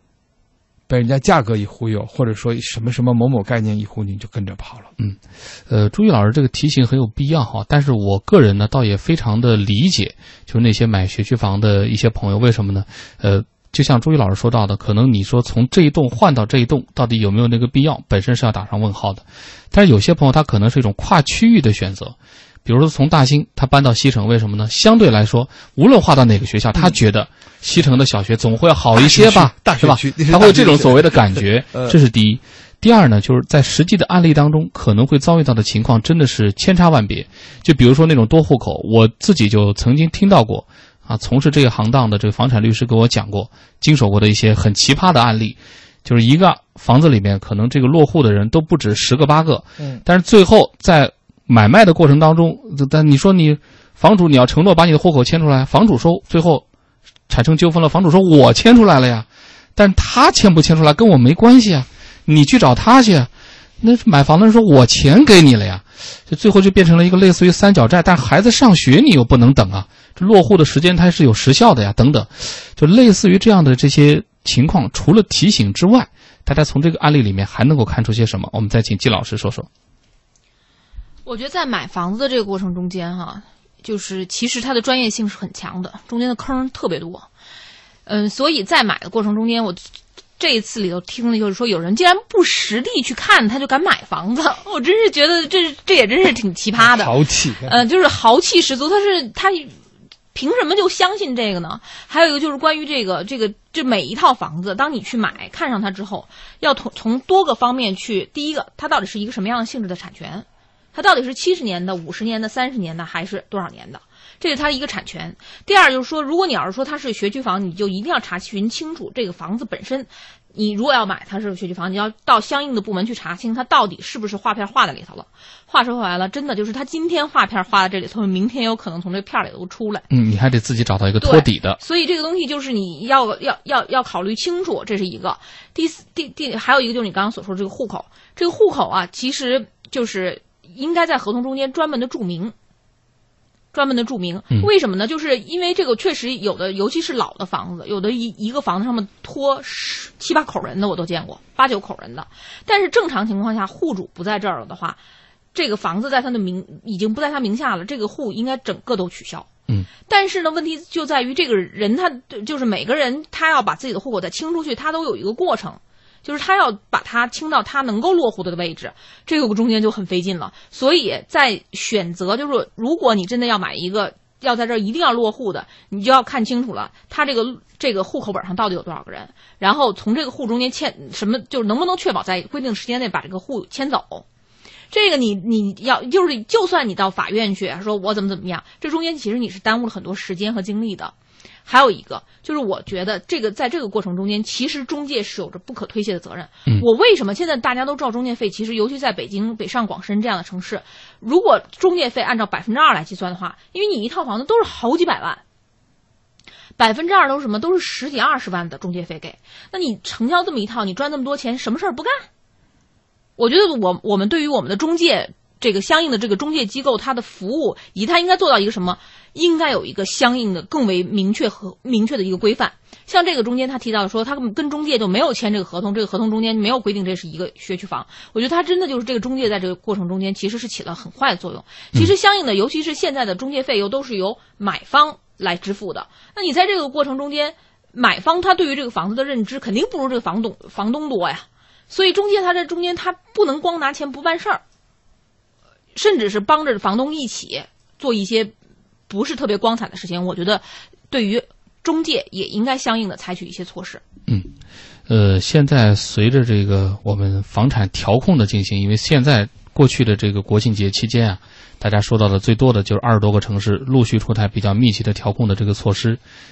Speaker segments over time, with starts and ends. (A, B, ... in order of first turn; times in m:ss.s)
0:00.9-0:04.9 A
0:05.0-0:56.6 B
0:29.0-0:32.0 A
0:57.3-1:03.3 B
1:03.8-1:19.7 B
1:21.2-1:27.3 C
1:28.1-1:39.7 C
1:36.8-1:37.8 A
1:40.3-2:10.1 C
2:10.1-2:11.8 B
2:11.2-2:22.5 C
2:23.7-2:35.0 C
2:35.5-2:39.5 C
2:40.1-3:04.2 C
3:04.9-3:11.1 C
3:11.6-3:25.4 C
3:26.8-3:32.3 C
3:33.4-4:04.6 C
4:06.0-4:08.5 C
4:09.1-4:14.0 C
4:15.1-4:26.2 B